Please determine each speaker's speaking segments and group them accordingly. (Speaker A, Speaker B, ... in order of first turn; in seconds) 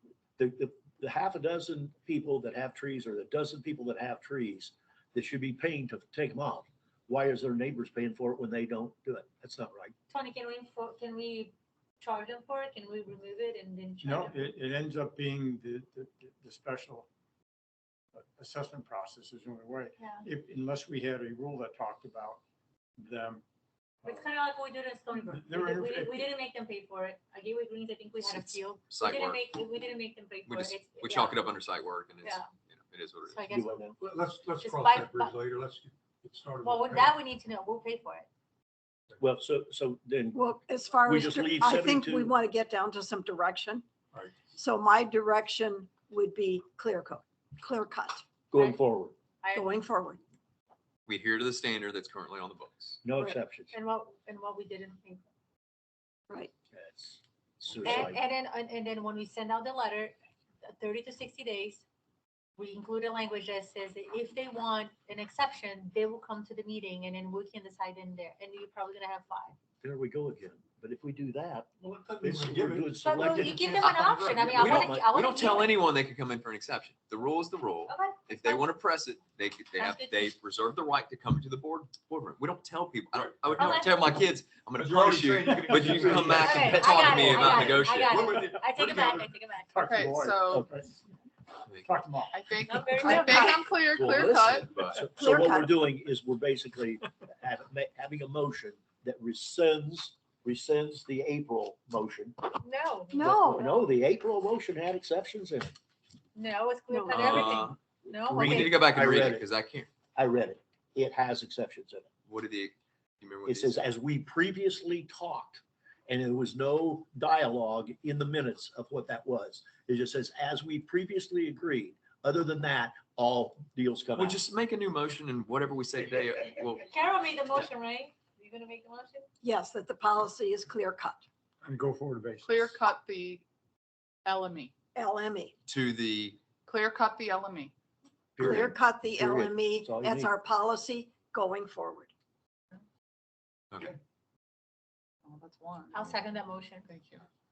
Speaker A: 0.4-9.9, 33.5-34.0, 39.2-40.4, 41.0-42.3, 48.5-49.1, 53.0-53.7, 56.7-58.2, 69.8-71.7, 72.2-75.4, 86.0-87.7, 93.9-102.3, 103.2-105.7, 108.2-109.5, 110.1-112.1, 113.5-124.4, 138.4-140.3
Speaker B: 10.1-14.4, 20.0-20.2, 24.0-31.5, 32.2-32.5, 33.2-33.9, 34.6-35.3, 36.6-38.3, 49.4-49.8, 53.7-55.3, 57.8-61.8, 62.6-69.5, 73.0-75.8, 77.9-78.7, 79.8-80.3, 83.6-84.0, 86.4-89.9, 92.7-93.6, 102.6-103.9, 106.3-108.8, 126.7-129.2, 145.9-146.9
Speaker C: 14.0-17.1, 18.1-22.4, 23.0-23.4, 25.3-26.2, 89.2-90.9, 91.8-92.5, 131.6-132.8
Speaker D: 28.2-29.4, 30.5-33.4, 51.1-53.0, 74.6-88.4, 94.0-95.1, 107.1-107.8, 108.4-109.9, 112.3-113.8, 124.1-126.8, 135.7-136.4, 143.7-144.0
Speaker E: 34.0-37.2, 44.1-44.5, 71.8-74.7, 84.8-89.2
Speaker F: 40.3-43.8, 44.5-48.2, 49.5-50.2, 93.0-93.7, 95.2-95.7, 103.1-103.6, 106.9-107.7, 108.4-108.7, 129.4-131.2, 134.9-135.5, 138.4-142.1
Speaker G: 89.8-90.7, 92.3-94.6, 132.4-133.4, 134.2-134.7, 136.7-137.7, 145.2-146.1, 146.9-147.2